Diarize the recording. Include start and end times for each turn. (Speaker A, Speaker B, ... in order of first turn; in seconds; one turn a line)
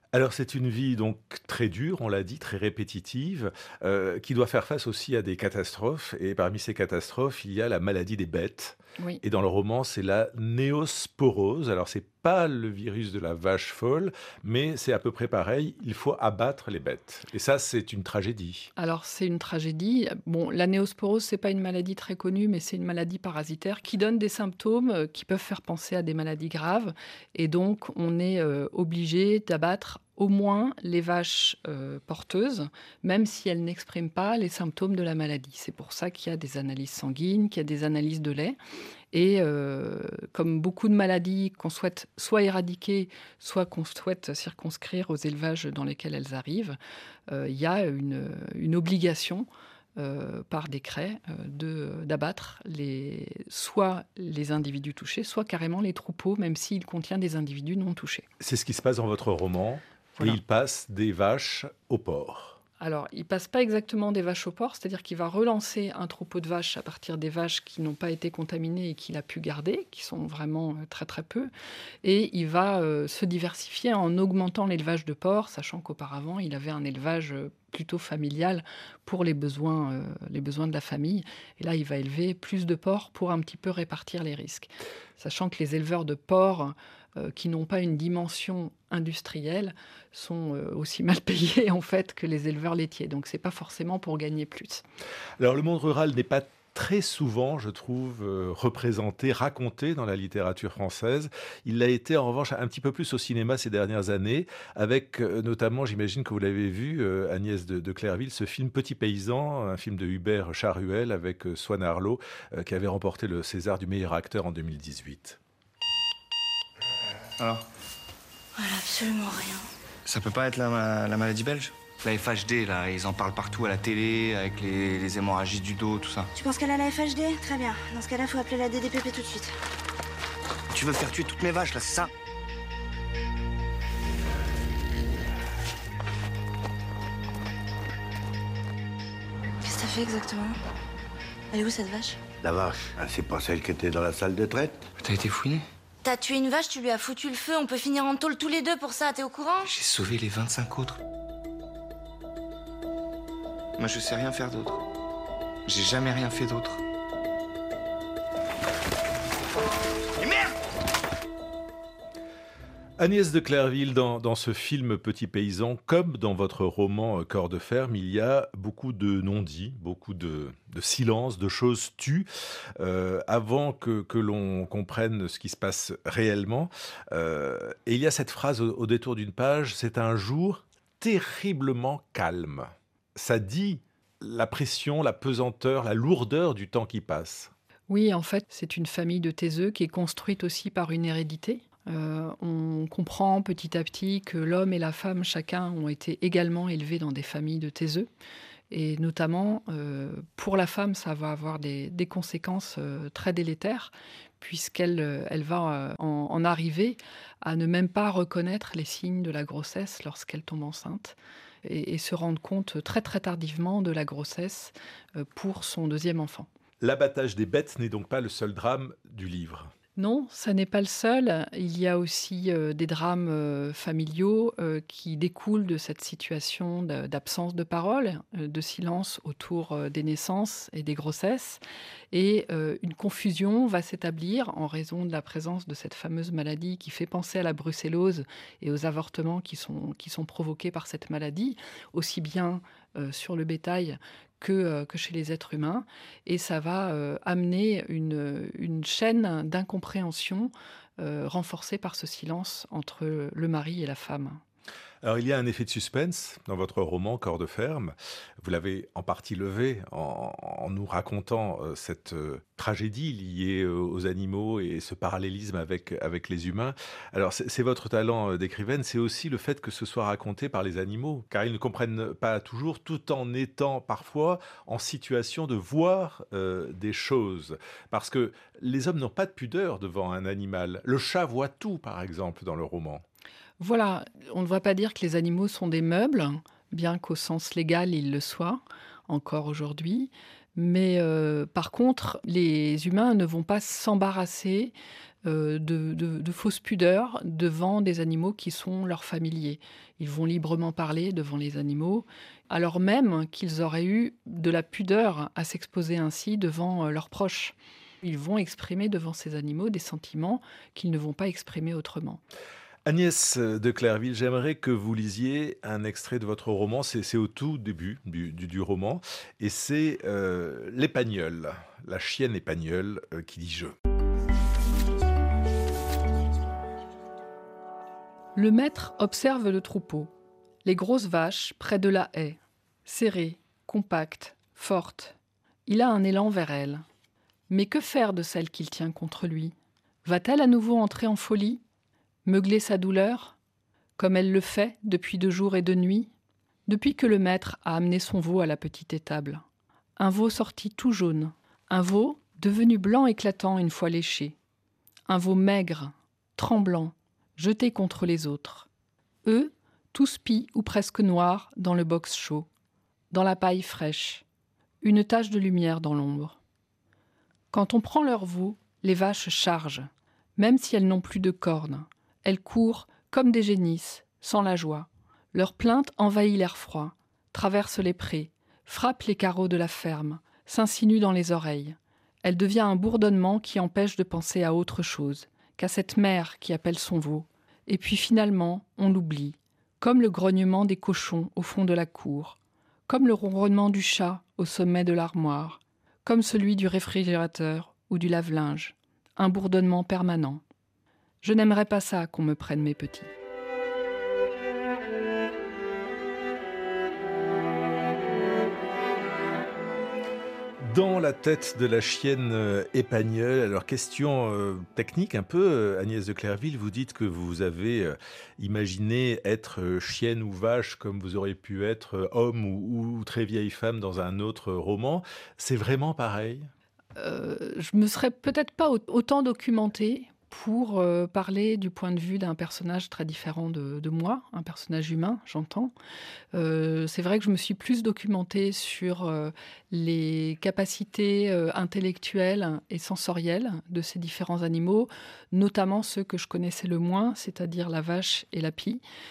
Speaker A: 0.1-18.7
Speaker B: 18.8-38.6
Speaker B: 39.1-58.3
Speaker A: 58.4-62.6
Speaker B: 62.8-71.5
Speaker B: 72.0-94.8
Speaker A: 95.4-115.4
Speaker C: 117.4-117.7
Speaker D: 118.6-119.7
Speaker C: 120.0-126.3
Speaker D: 126.3-129.5
Speaker C: 130.7-132.1
Speaker D: 139.6-140.6
Speaker D: 141.5-142.2
Speaker E: 142.4-144.8
Speaker C: 145.0-145.7
Speaker D: 146.0-149.7
Speaker C: 149.7-151.0
Speaker C: 153.8-154.8
Speaker C: 155.7-156.8
Speaker C: 160.2-160.5
Speaker A: 163.0-172.3
Speaker A: 172.8-187.5
Speaker B: 187.9-198.1
Speaker B: 198.7-216.5
Speaker A: 216.8-219.7
Speaker B: 220.0-231.6
Speaker B: 232.1-254.4
Speaker A: 255.0-283.0
Speaker B: 283.6-312.2
Speaker A: 312.9-323.8
Speaker B: 328.4-330.1
Speaker B: 330.6-336.8
Speaker B: 337.5-341.6
Speaker B: 342.2-343.4
Speaker B: 344.0-346.1
Speaker B: 346.7-349.4
Speaker B: 350.0-354.4
Speaker B: 355.1-358.7
Speaker B: 359.2-362.5
Speaker B: 363.1-364.2
Speaker B: 364.8-366.4
Speaker B: 367.5-392.4
Speaker B: 392.9-400.4
Speaker B: 401.2-403.1
Speaker A: 410.6-426.5
Speaker B: 427.0-435.7
Speaker B: 436.3-448.8